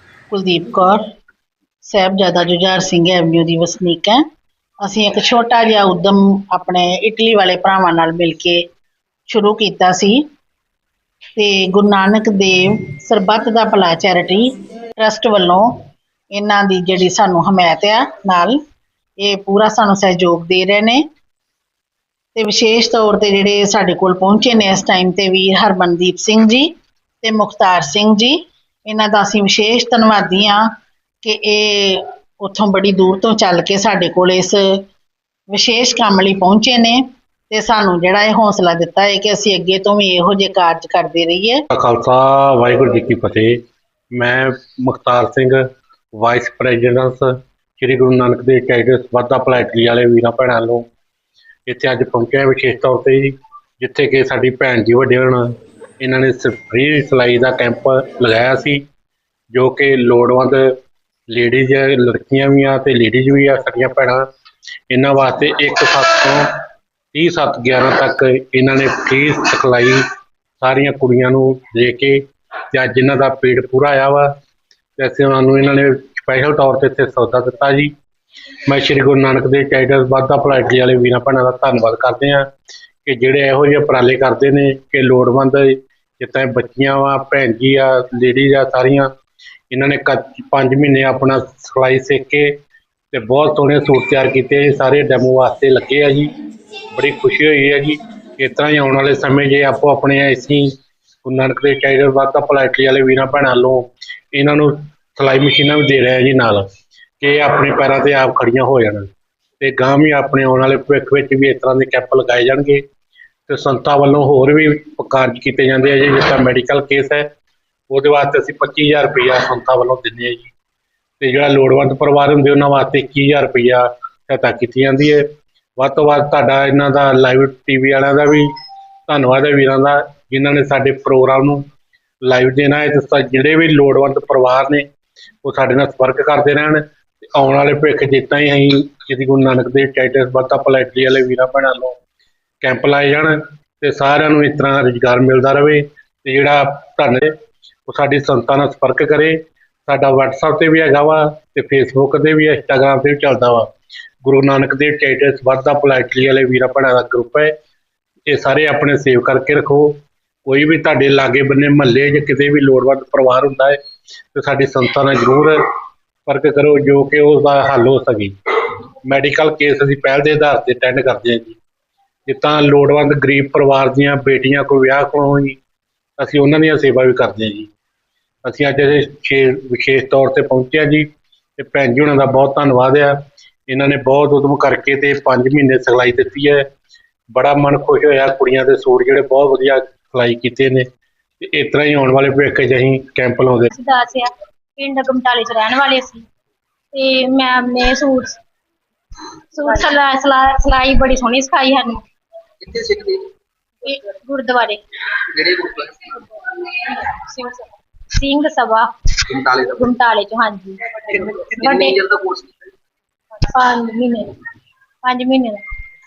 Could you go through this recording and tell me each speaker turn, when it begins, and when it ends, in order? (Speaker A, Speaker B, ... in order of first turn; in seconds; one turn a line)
Speaker A: 0.3-1.0
Speaker A: 1.8-4.2
Speaker A: 4.8-8.6
Speaker A: 9.3-10.2
Speaker A: 11.3-15.6
Speaker A: 16.3-18.6
Speaker A: 19.2-21.0
Speaker A: 22.3-26.7
Speaker A: 27.2-28.3
Speaker A: 28.9-30.6
Speaker A: 31.2-34.6
Speaker A: 35.5-41.6
Speaker B: 41.7-43.5
Speaker B: 44.1-45.6
Speaker B: 46.2-50.9
Speaker B: 51.7-58.8
Speaker B: 59.5-60.6
Speaker B: 61.3-64.2
Speaker B: 64.9-66.4
Speaker B: 67.1-70.0
Speaker B: 70.6-72.2
Speaker B: 72.7-74.3
Speaker B: 75.0-77.9
Speaker B: 78.7-82.5
Speaker B: 83.0-89.1
Speaker B: 89.7-92.5
Speaker B: 93.1-96.3
Speaker B: 96.9-100.7
Speaker B: 101.2-106.7
Speaker B: 107.2-112.8
Speaker B: 113.5-117.2
Speaker B: 117.9-120.5
Speaker B: 121.2-125.2
Speaker B: 125.8-128.5
Speaker B: 129.1-131.6
Speaker B: 132.2-134.8
Speaker B: 135.4-136.8
Speaker B: 137.3-142.0
Speaker B: 142.6-147.3
Speaker B: 147.9-153.7
Speaker B: 154.2-157.5
Speaker B: 158.3-163.8
Speaker B: 164.3-165.6
Speaker B: 166.2-168.3
Speaker B: 169.1-171.6
Speaker B: 172.3-175.6
Speaker B: 176.2-177.7
Speaker B: 178.4-181.1
Speaker B: 181.6-183.2
Speaker B: 183.7-186.6
Speaker B: 187.3-190.8
Speaker B: 191.4-193.7
Speaker C: 193.7-196.2
Speaker C: 196.9-198.4
Speaker C: 199.5-202.0
Speaker D: 202.6-203.2
Speaker C: 203.8-204.8
Speaker D: 205.3-206.1
Speaker C: 206.8-208.9
Speaker D: 209.3-210.0
Speaker C: 209.7-212.0
Speaker D: 211.1-212.7
Speaker C: 213.3-214.3
Speaker C: 215.0-215.6